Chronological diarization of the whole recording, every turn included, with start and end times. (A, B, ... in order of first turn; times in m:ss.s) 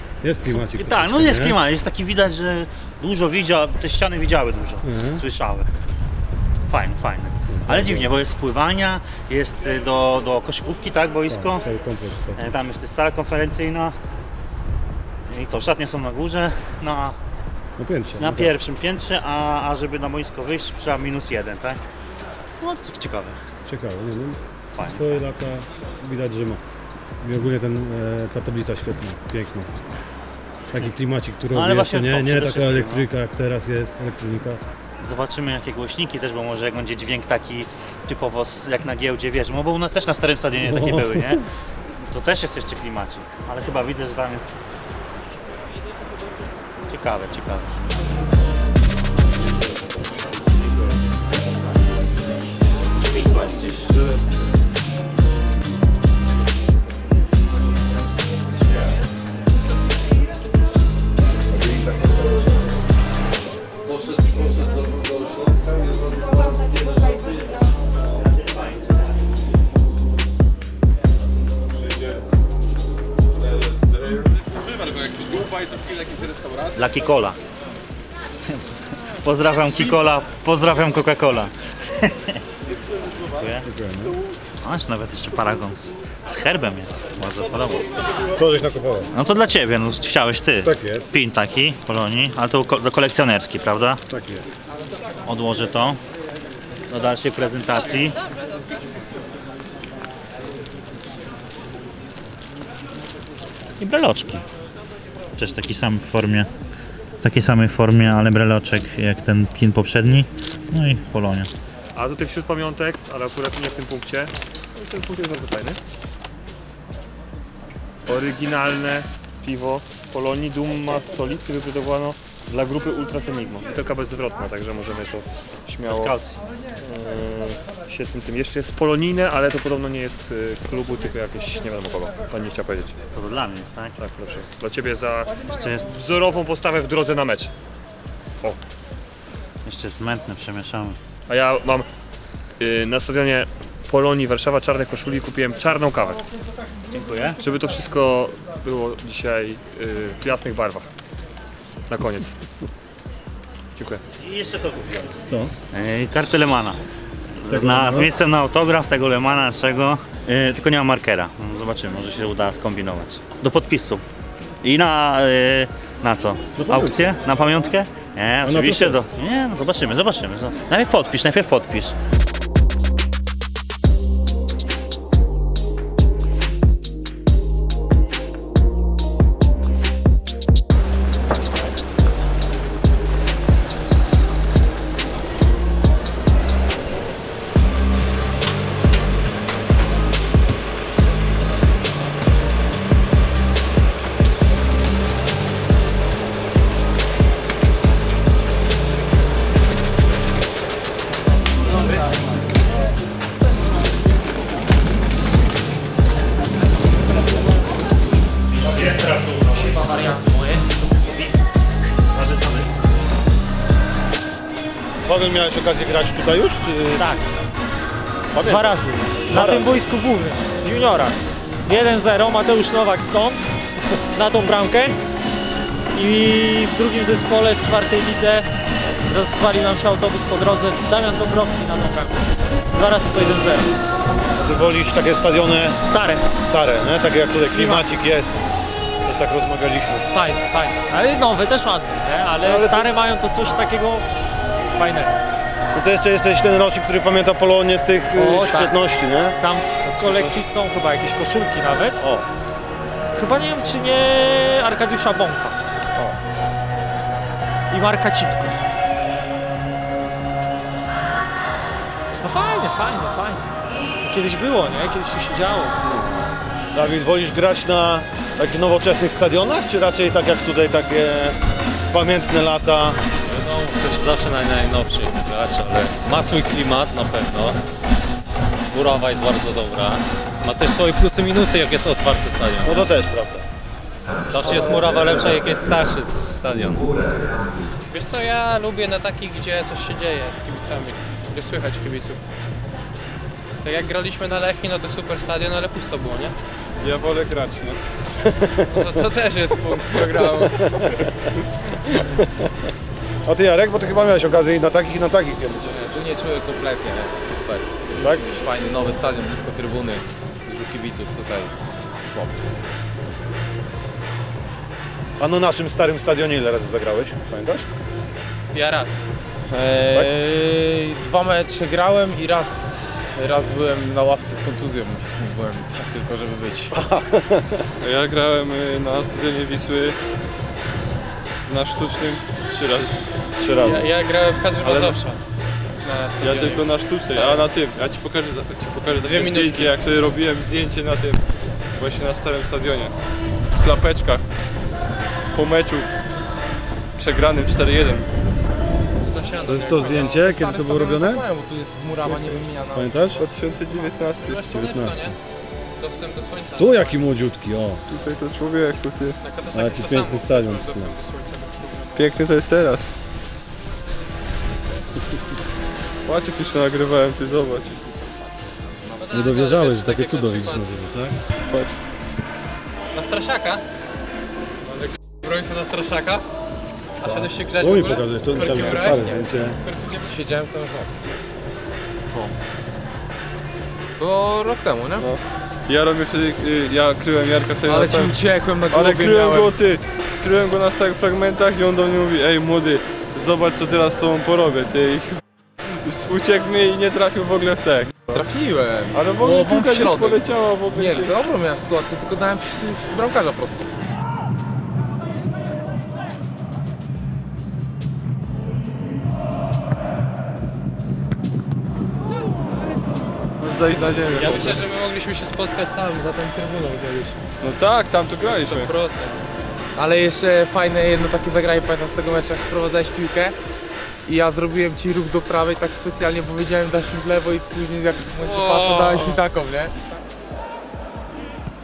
0:00.2-0:01.6 A
0:00.5-0:05.7 B
0:04.8-0:05.2 A
0:06.7-0:11.7 B
0:07.5-0:08.2 A
0:11.3-0:12.5 A
0:12.4-0:14.0 B
0:15.3-0:17.2 B
0:17.8-0:18.6 A
0:18.2-0:21.8 B
0:22.6-0:23.4 B
0:23.7-0:26.6 A
0:24.8-0:25.2 B
0:27.2-0:29.7 A
0:30.7-0:34.6 A
0:31.5-0:33.1 B
0:35.0-0:41.4 B
0:40.6-0:41.4 A
0:42.0-0:44.5 B
0:46.9-0:47.8 B
1:16.8-1:17.4 B
1:19.2-1:22.4 B
1:23.3-1:23.7 B
1:23.6-1:24.2 A
1:24.6-1:27.9 B
1:28.4-1:29.1 A
1:29.1-1:34.0 B
1:30.6-1:31.1 A
1:34.1-1:34.5 A
1:35.3-1:36.0 B
1:36.9-1:38.2 B
1:43.8-1:44.4 B
1:45.4-1:46.5 B
1:47.2-1:51.5 B
1:52.0-1:55.8 C
1:58.1-2:06.1 C
2:05.8-2:06.4 B
2:06.8-2:13.0 C
2:13.1-2:14.0 B
2:14.0-2:17.5 C
2:15.5-2:15.9 B
2:19.6-2:21.0 B
2:21.3-2:21.9 C
2:22.6-2:26.2 C
2:26.9-2:27.4 B
2:27.4-2:30.9 C
2:31.9-2:32.4 C
2:33.8-2:34.0 C
2:34.2-2:35.2 B
2:35.3-2:35.5 A
2:35.7-2:36.8 B
2:37.4-2:44.0 B
2:37.5-2:38.1 A
2:44.6-2:51.9 B
2:46.6-2:47.2 A
2:48.4-2:49.0 A
3:28.5-3:30.2 B
3:29.5-3:30.7 D
3:32.1-3:32.7 B
3:35.0-3:37.1 A
3:37.0-3:37.2 D
3:38.3-3:38.8 A
3:38.4-3:43.4 D
3:39.3-3:39.8 A
3:44.1-3:45.0 D
3:45.9-3:48.5 D
3:49.1-3:53.7 D
3:54.4-3:55.8 A
3:55.8-3:56.3 D
3:56.3-3:58.4 A
3:57.3-3:57.8 D
3:59.0-4:00.1 A
4:00.1-4:04.0 D
4:02.4-4:02.9 A
4:04.8-4:05.2 D
4:05.7-4:09.4 A
4:08.2-4:08.8 D
4:09.4-4:12.0 D
4:10.0-4:10.3 A
4:12.0-4:12.3 A
4:13.1-4:15.6 D
4:17.7-4:18.6 D
4:22.2-4:23.4 D
4:24.0-4:25.8 D
4:25.8-4:31.4 A
4:31.9-4:33.0 A
4:33.2-4:37.6 E
4:38.7-4:42.9 E
4:42.6-4:43.4 A
4:44.3-4:47.2 E
4:47.9-4:52.2 F
4:53.6-4:56.4 F
4:56.8-4:57.8 G
4:58.3-4:58.6 A
4:58.6-5:00.8 F
5:03.3-5:05.7 A
5:05.6-5:12.4 H
5:08.0-5:08.3 A
5:15.2-5:17.6 A
5:18.5-5:19.0 F
5:19.5-5:26.8 H
5:26.7-5:27.6 A
5:27.8-5:30.0 G
5:31.5-5:33.0 G
5:33.4-5:33.9 A
5:33.6-5:35.2 F
5:34.6-5:35.0 G
5:35.8-5:37.5 F
5:36.2-5:41.2 G
5:38.9-5:39.8 F
5:41.8-5:42.9 G
5:43.6-5:44.2 G
5:45.3-5:45.9 G
5:47.0-5:48.1 G
5:49.0-5:50.4 F
5:49.4-5:51.2 A
5:50.2-5:53.1 H
5:52.0-5:52.4 G
5:52.7-5:53.2 A
5:53.2-5:54.7 G
5:54.2-5:55.2 F
5:54.6-5:55.2 A
5:55.8-5:57.0 F
5:56.6-5:57.8 A
5:57.9-5:59.2 G
5:59.2-6:02.2 F
5:59.5-6:01.0 A
6:02.0-6:02.9 G
6:06.1-6:08.1 G
6:09.0-6:10.8 F
6:09.1-6:11.2 A
6:11.5-6:11.8 G
6:12.9-6:13.6 F
6:15.2-6:16.2 F
6:17.0-6:19.1 F
6:17.0-6:19.6 A
6:18.4-6:20.9 H
6:24.0-6:25.1 H
6:25.0-6:28.2 G
6:27.6-6:29.6 H
6:28.7-6:35.2 G
6:35.8-6:38.2 G
6:38.1-6:43.7 H
6:38.9-6:41.2 G
6:53.4-6:54.6 G
6:54.1-6:57.2 F
6:57.4-6:58.7 G
6:58.2-6:59.2 F
6:59.8-7:03.4 H
7:04.0-7:09.8 H
7:08.2-7:09.3 F